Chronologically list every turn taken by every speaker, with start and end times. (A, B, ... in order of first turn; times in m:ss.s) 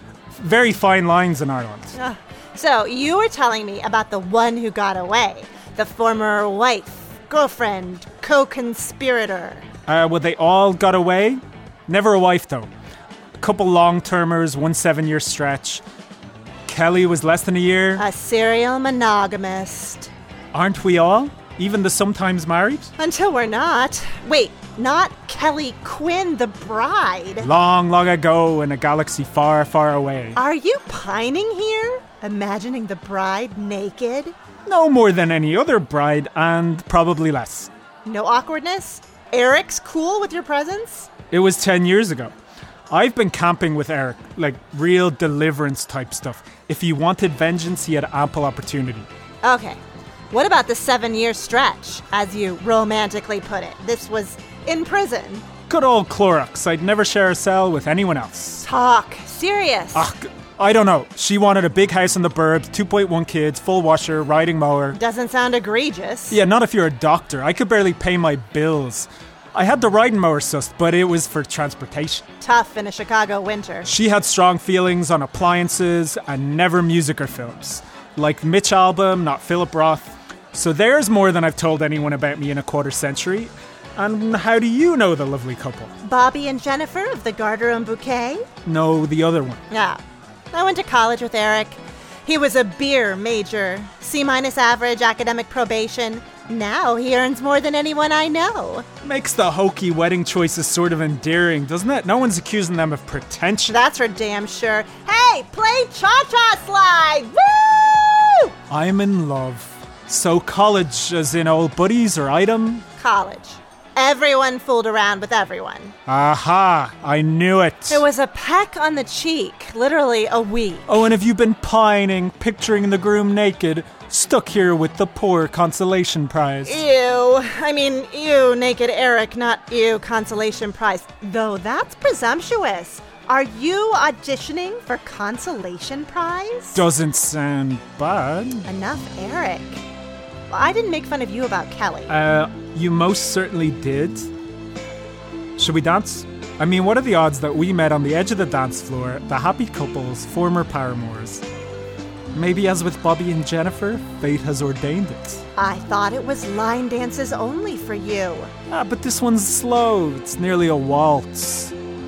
0:00.3-0:01.9 A
0:01.9-0:09.7 B
0:09.9-0:12.7 A
0:13.4-0:15.8 A
0:16.6-0:18.0 A
0:18.0-0:20.1 B
0:20.5-0:22.9 A
0:23.0-0:27.5 B
0:27.4-0:30.4 A
0:30.4-0:34.3 B
0:34.6-0:37.7 A
0:38.0-0:41.1 B
0:41.3-0:42.3 A
0:42.9-0:49.1 A
0:49.4-0:49.8 B
0:50.3-0:55.5 B
0:55.7-0:58.6 A
0:58.6-1:00.1 B
0:59.9-1:05.0 A
1:04.9-1:06.4 B
1:06.3-1:12.2 A
1:12.4-1:13.9 B
1:13.8-1:25.9 A
1:26.0-1:28.5 B
1:28.6-1:29.6 A
1:29.7-1:30.0 B
1:30.5-1:38.9 B
1:39.0-1:43.8 A
1:43.7-1:48.5 B
1:48.7-1:52.8 A
1:53.0-1:55.9 B
1:56.1-1:58.0 A
1:57.9-2:01.0 B
2:00.9-2:06.8 A
2:06.6-2:16.8 B
2:16.7-2:18.6 A
2:18.6-2:19.8 B
2:20.5-2:22.1 B
2:22.1-2:24.3 A
2:25.6-2:31.4 A
2:32.3-2:35.4 A
2:35.6-2:38.5 B
2:38.7-2:41.7 A